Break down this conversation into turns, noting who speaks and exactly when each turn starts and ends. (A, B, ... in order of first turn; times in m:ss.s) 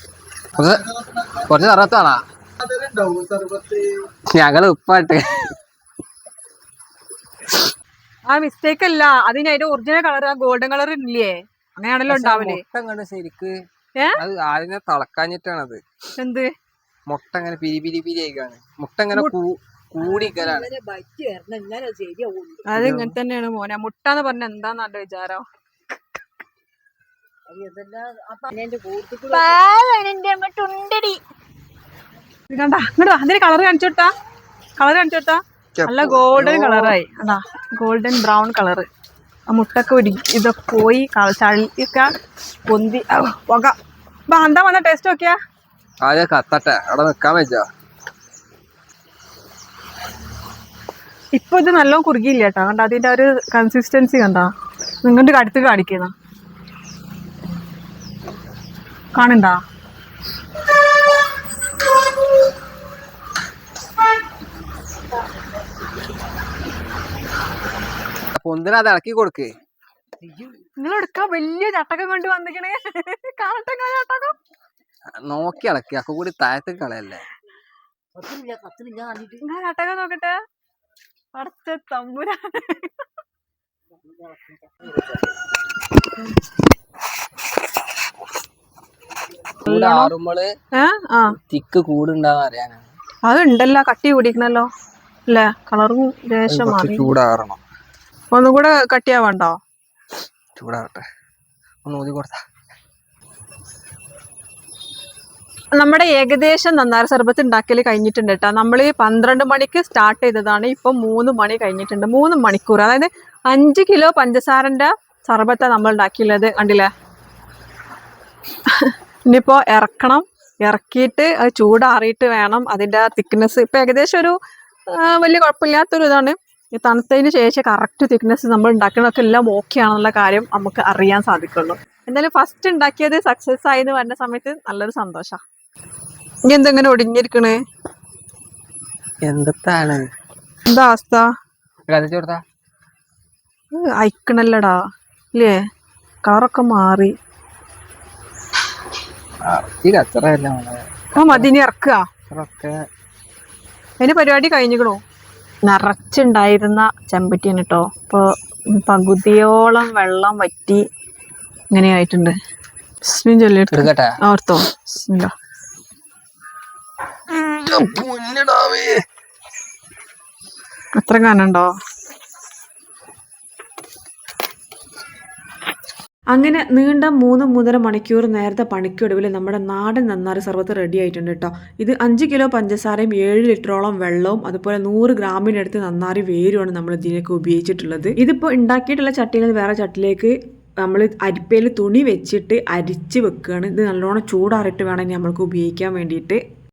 0:00.6-0:02.2 A
0:02.7-0:05.4 A
0:08.3-0:12.6 B
0:12.1-0:13.5 A
0:14.2-0:15.8 A
0:16.2-0:16.5 B
0:17.1-0:20.7 A
0:20.0-0:22.7 C
0:22.7-0:25.4 B
0:22.8-0:23.2 A
0:27.5-0:29.6 C
0:29.3-0:31.2 B
0:32.5-0:34.1 B
0:34.8-0:38.9 B
0:35.8-0:37.0 A
0:39.5-0:42.1 B
0:42.7-0:43.8 B
0:44.3-0:45.4 B
0:46.0-0:47.7 A
0:51.4-0:54.5 B
0:55.0-0:56.1 B
0:59.2-0:59.6 B
1:08.4-1:09.5 A
1:10.8-1:14.4 B
1:15.2-1:17.2 A
1:18.2-1:19.4 C
1:19.4-1:20.4 B
1:21.4-1:23.0 B
1:24.0-1:24.7 C
1:29.6-1:30.1 B
1:29.6-1:30.5 A
1:30.8-1:31.4 B
1:31.5-1:32.9 A
1:33.2-1:34.7 B
1:35.3-1:37.1 B
1:36.5-1:37.6 A
1:38.3-1:39.6 B
1:40.6-1:41.0 A
1:41.8-1:42.4 A
1:45.8-1:56.9 B
1:58.7-2:04.4 B
2:04.9-2:15.4 B
2:16.5-2:17.6 B
2:19.2-2:20.1 A
2:20.7-2:21.3 B
2:21.9-2:22.4 A
2:23.7-2:24.8 B
2:26.2-2:27.1 B
2:29.4-2:31.5 A
2:31.2-2:32.0 B
2:32.3-2:32.8 A
2:34.0-2:35.0 B
2:35.6-2:40.8 B
2:41.7-2:42.4 B
2:43.1-2:45.3 B
2:43.7-2:44.2 A
2:47.3-2:49.0 A
2:51.0-2:51.7 B
2:56.3-3:16.4 D